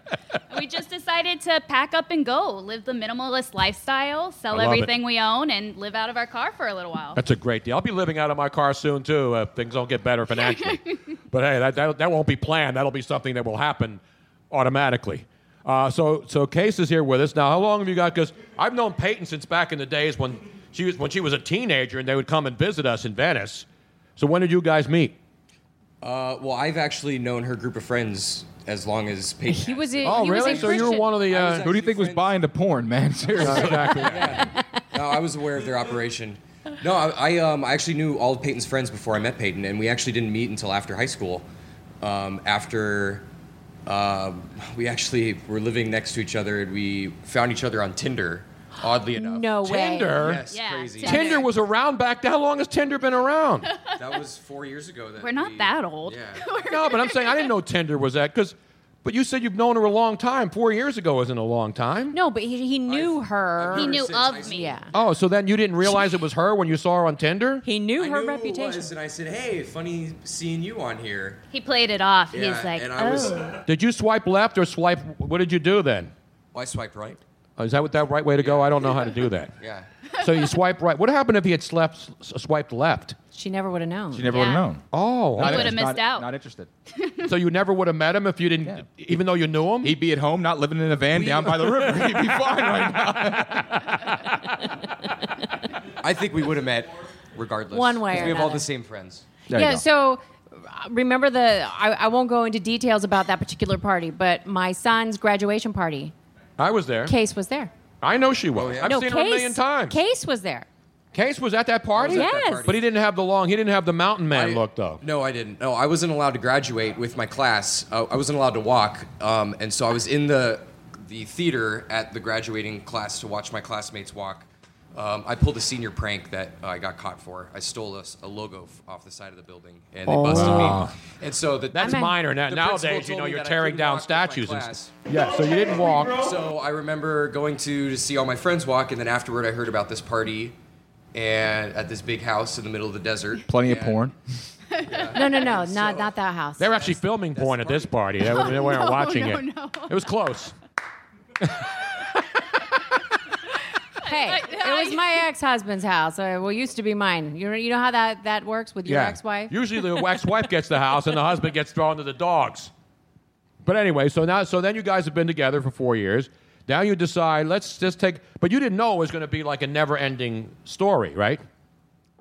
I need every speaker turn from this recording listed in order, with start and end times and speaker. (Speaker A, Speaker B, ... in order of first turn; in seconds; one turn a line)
Speaker A: 0.5-7.2
Speaker B: 4.5-4.9
Speaker B: 7.2-23.7
Speaker A: 10.5-10.8
Speaker B: 24.2-25.2
Speaker C: 26.0-32.4
Speaker D: 29.5-31.1
Speaker B: 30.0-31.7
Speaker E: 31.6-34.3
Speaker C: 33.4-41.5
Speaker B: 33.4-34.5
Speaker C: 42.0-43.3
Speaker C: 43.9-51.5
Speaker D: 49.1-50.2
Speaker B: 49.6-50.4
Speaker A: 50.5-51.5
Speaker B: 51.0-53.7
Speaker C: 54.0-56.4
Speaker A: 55.2-57.5
Speaker B: 56.7-62.1
Speaker D: 62.1-64.0
Speaker C: 62.9-64.8
Speaker A: 63.7-64.8
Speaker D: 64.5-64.9
Speaker B: 64.9-67.7
Speaker D: 67.6-68.9
Speaker C: 68.0-71.4
Speaker A: 71.5-73.6
Speaker C: 72.3-73.6
Speaker B: 73.7-76.1
Speaker C: 76.5-77.2
Speaker B: 77.6-79.5
Speaker C: 78.4-79.9
Speaker B: 80.2-83.2
Speaker D: 83.3-84.5
Speaker E: 84.1-84.8
Speaker A: 84.3-84.7
Speaker B: 84.9-85.8
Speaker E: 85.3-86.7
Speaker A: 85.4-86.3
Speaker A: 87.0-87.2
Speaker B: 87.2-90.0
Speaker E: 89.8-94.0
Speaker B: 91.4-92.4
Speaker B: 93.7-94.2
Speaker C: 96.0-99.3
Speaker D: 97.7-98.7
Speaker E: 99.5-99.8
Speaker D: 99.5-106.1
Speaker B: 106.6-107.1
Speaker D: 107.1-107.7
Speaker B: 108.0-110.0
Speaker C: 108.5-109.0
Speaker D: 108.8-110.7
Speaker B: 111.1-115.0
Speaker C: 112.0-112.9
Speaker D: 112.1-112.7
Speaker C: 114.3-135.0
Speaker B: 130.2-130.9
Speaker B: 131.7-136.3
Speaker D: 131.8-132.1
Speaker C: 135.7-140.6
Speaker C: 141.1-144.1
Speaker E: 143.5-144.2
Speaker C: 144.8-148.6
Speaker D: 145.1-146.7
Speaker B: 146.6-150.6
Speaker A: 148.2-150.0
Speaker B: 151.4-152.2
Speaker A: 154.0-155.2
Speaker D: 154.0-159.5
Speaker B: 158.9-162.7
Speaker B: 163.6-171.4